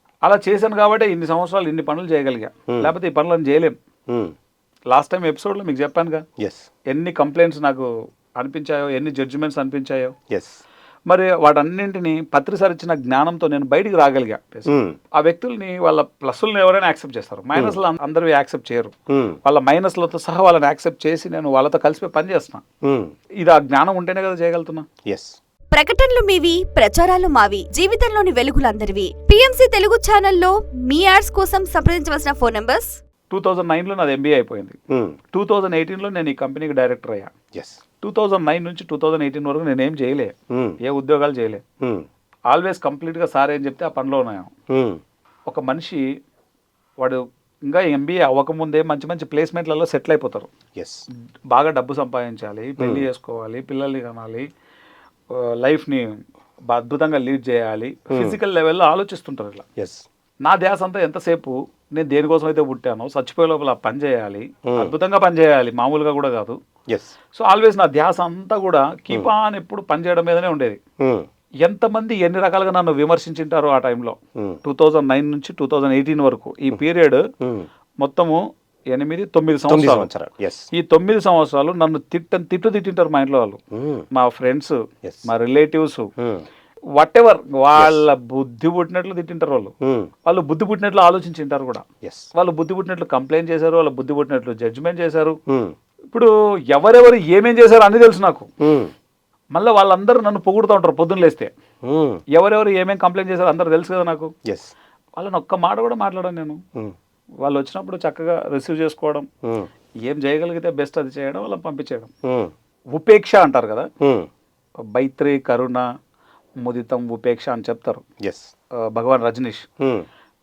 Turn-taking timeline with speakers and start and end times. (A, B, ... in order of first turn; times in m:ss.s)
0:00.2-0:03.8 A
0:02.7-0:02.9 B
0:04.1-0:04.4 B
0:04.9-0:06.2 A
0:06.4-0:06.7 B
0:06.9-0:10.2 A
0:10.3-0:10.6 B
0:11.1-0:18.9 A
0:14.7-0:15.0 B
0:19.1-0:19.4 B
0:19.4-0:22.6 A
0:22.8-0:23.1 B
0:23.4-0:24.9 A
0:25.0-0:25.4 B
0:25.7-0:33.0 C
0:33.3-0:34.8 A
0:34.9-0:35.2 B
0:35.3-0:37.3 A
0:37.5-0:37.8 B
0:38.0-0:41.6 A
0:40.5-0:40.8 B
0:41.8-0:42.1 B
0:42.5-0:44.5 A
0:44.7-0:45.0 B
0:45.5-0:46.0 A
0:47.0-0:50.5 A
0:50.8-0:51.1 B
0:51.5-0:54.5 A
0:52.8-0:53.1 B
0:55.3-0:59.6 A
0:58.1-0:58.4 B
0:59.8-1:00.0 B
1:00.4-1:06.6 A
1:04.6-1:04.9 B
1:06.9-1:07.2 B
1:07.3-1:10.8 A
1:11.0-1:11.3 B
1:11.6-1:17.3 A
1:17.4-1:17.7 B
1:18.0-1:20.1 A
1:19.7-1:20.7 B
1:20.7-1:23.6 A
1:23.7-1:24.1 B
1:24.1-1:26.1 A
1:25.0-1:25.3 B
1:26.2-1:26.5 B
1:27.0-1:29.7 A
1:27.8-1:28.0 B
1:29.8-1:30.1 B
1:30.2-1:35.4 A
1:32.0-1:32.3 B
1:35.5-1:35.8 B
1:36.1-1:38.5 A
1:38.6-1:38.9 B
1:39.5-1:41.5 A
1:41.8-1:42.2 B
1:42.3-1:44.3 A
1:44.4-1:44.7 B
1:45.2-1:46.6 A
1:47.4-1:49.3 A
1:49.4-1:49.7 B
1:50.0-1:52.1 A
1:52.2-1:52.5 B
1:52.9-1:53.9 A
1:54.0-1:54.3 B
1:54.9-1:55.9 A
1:56.6-1:58.0 A
1:58.2-1:58.5 B
1:58.8-1:59.7 A
1:59.8-2:00.1 B